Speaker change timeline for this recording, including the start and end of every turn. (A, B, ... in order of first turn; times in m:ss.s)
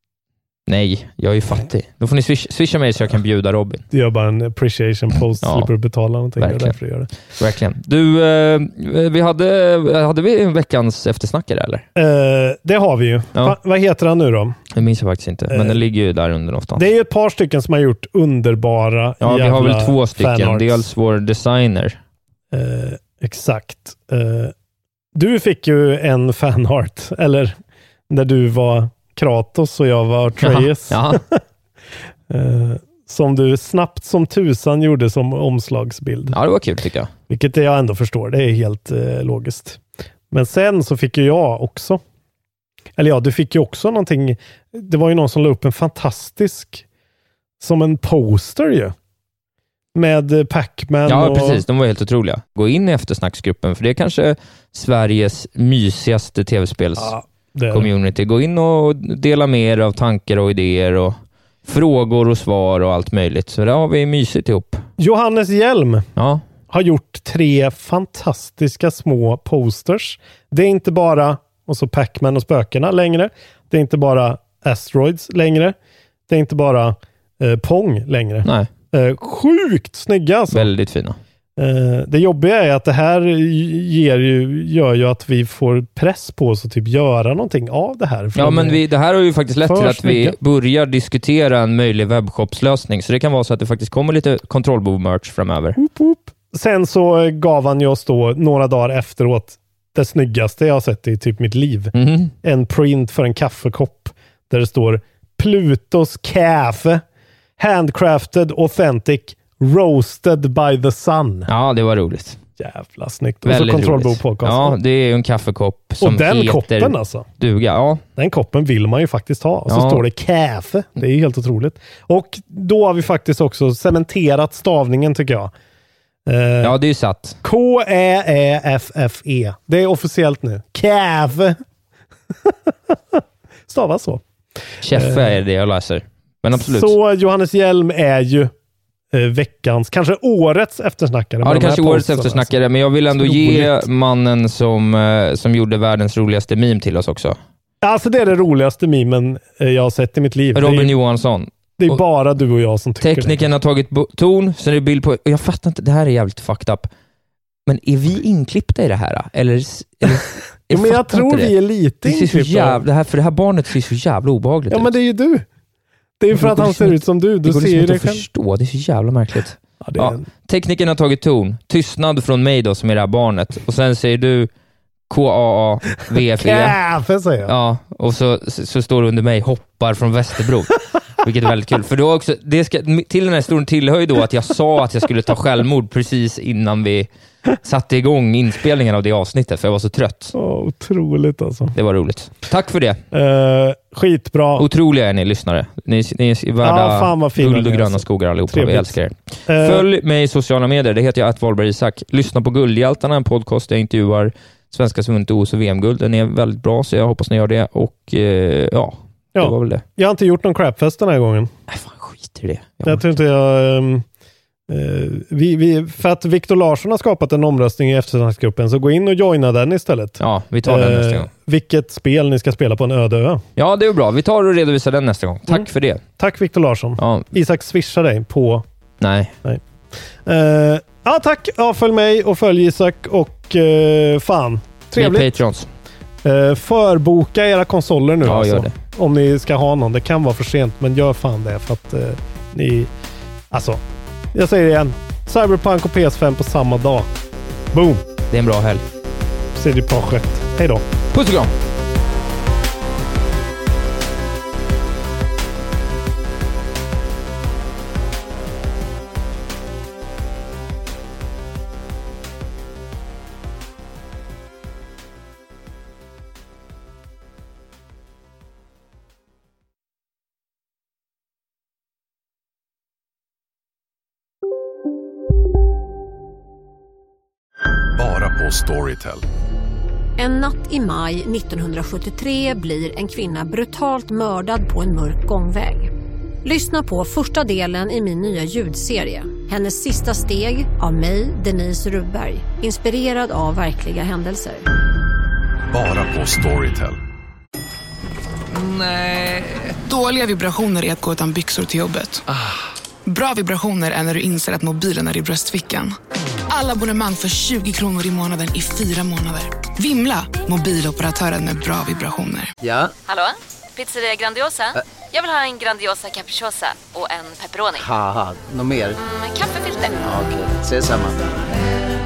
0:00.7-0:03.8 A
0:03.9-0:07.1 B
0:05.4-0:05.7 A
0:06.4-0:11.8 A
0:12.0-0:14.6 B
0:14.7-0:16.8 A
0:15.5-0:15.8 B
0:16.8-0:20.8 B
0:19.2-0:22.0 A
0:22.5-0:24.5 B
0:25.1-0:27.6 B
0:28.1-0:31.4 B
0:30.4-0:31.2 A
0:32.3-0:36.4 B
0:36.3-0:37.1 A
0:37.3-0:42.0 B
0:43.0-0:46.8 B
0:47.6-0:48.9 B
0:49.9-0:51.6 B
0:51.1-0:57.1 A
0:57.0-0:57.9 B
0:57.7-1:04.8 A
1:05.0-1:06.1 B
1:06.2-1:06.4 A
1:06.7-1:15.8 B
1:16.3-1:20.7 B
1:18.4-1:18.7 A
1:20.5-1:21.2 A
1:21.6-1:28.8 B
1:28.4-1:35.8 A
1:29.6-1:30.4 B
1:35.8-1:47.0 B
1:41.9-1:42.3 A
1:47.6-1:51.5 B
1:51.5-1:52.4 A
1:52.6-1:54.8 B
1:53.4-1:58.0 A
1:56.0-1:57.2 B
1:58.2-2:05.5 B
1:59.7-2:00.0 A
2:06.2-2:06.7 B
2:06.6-2:07.4 A
2:07.4-2:11.6 B
2:12.4-2:14.2 B
2:14.8-2:16.9 A
2:14.9-2:15.4 B
2:16.5-2:18.5 B
2:19.1-2:22.6 B
2:21.4-2:27.4 A
2:23.2-2:23.8 B
2:27.8-2:31.0 B
2:30.5-2:32.0 A
2:31.8-2:33.4 B
2:33.0-2:36.9 A
2:37.6-2:44.9 A
2:40.7-2:42.8 B
2:44.7-2:45.4 B
2:46.2-2:48.2 B
2:46.3-2:54.5 A
2:49.8-2:50.2 B
2:55.1-2:56.8 A
2:56.1-2:57.5 B
2:57.4-3:07.1 A
3:07.6-3:10.3 A
3:10.3-3:11.8 B
3:11.7-3:13.0 A
3:13.1-3:14.7 B
3:14.6-3:29.8 A
3:16.6-3:19.9 B
3:29.3-3:31.5 B
3:31.7-3:33.1 A
3:32.8-3:34.0 B
3:34.7-3:43.4 B
3:40.2-3:41.3 A
3:43.6-3:46.0 A
3:46.2-3:48.6 B
3:47.0-3:47.2 A
3:49.0-3:49.3 A
3:50.2-3:55.3 B
3:55.0-3:55.7 A
3:56.2-4:02.9 B
3:58.2-3:58.7 A
4:03.5-4:03.8 B
4:04.3-4:07.1 B
4:07.7-4:08.0 B
4:08.3-4:08.8 A
4:09.5-4:10.8 B
4:11.1-4:11.5 A
4:38.0-4:39.2 C
4:40.2-4:45.9 D
4:46.4-4:54.6 D
4:55.7-4:57.0 C
4:58.5-4:59.8 C
4:59.8-5:02.2 E
5:03.0-5:05.9 E
5:06.5-5:12.5 E
5:12.6-5:12.9 F
5:13.1-5:17.8 G
5:17.8-5:19.0 F
5:19.0-5:19.8 G
5:19.4-5:20.0 E
5:20.0-5:21.2 F